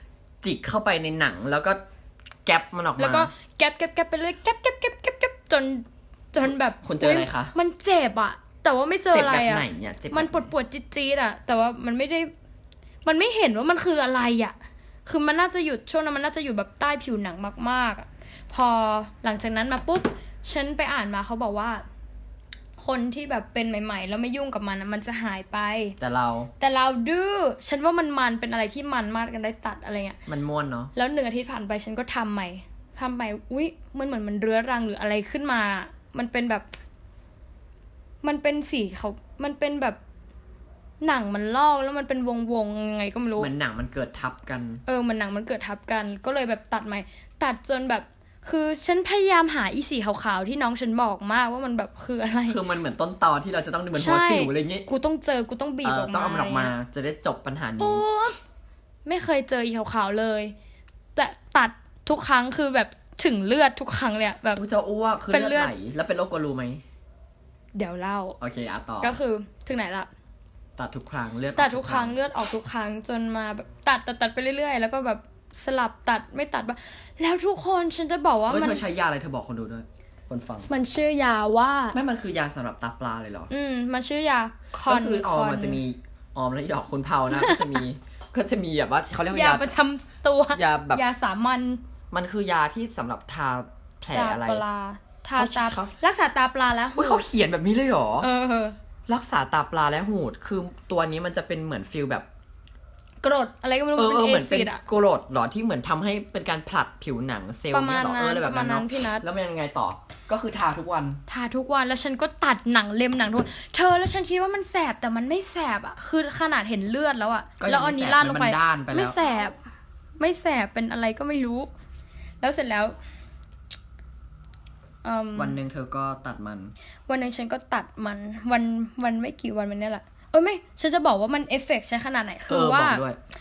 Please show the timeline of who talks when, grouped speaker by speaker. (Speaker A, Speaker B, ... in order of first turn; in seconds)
Speaker A: 0.4-1.8, 2.4-3.3, 6.8-7.5, 9.1-10.5, 26.0-26.5, 30.3-30.9, 43.4-44.8, 52.5-54.9, 55.8-58.0, 64.5-66.8, 68.4-69.2, 70.8-72.2, 78.5-80.7, 81.9-83.5, 84.8-89.7, 90.5-91.0, 92.1-94.6, 95.3-95.9, 96.9-98.3, 99.1-102.2, 104.0-111.2, 117.6-119.2, 125.3-126.7, 132.5-133.2
Speaker B: 3.0-12.3, 13.0-21.8, 22.8-25.9, 26.6-30.2, 30.9-36.7, 38.2-40.0, 41.0-43.5, 44.9-52.6, 53.9-56.7, 57.8-58.4, 59.0-60.5, 61.1-64.6, 65.3-65.7, 67.7-68.4, 69.0-70.1, 71.5-78.8, 80.7-82.0, 83.5-85.8, 87.3-87.8, 89.3-91.8, 94.1-97.2, 98.2-98.8, 103.2-104.8, 107.7-109.2, 111.3-119.5, 120.2-121.7, 122.4-123.0, 125.0-125.6, 127.1-133.0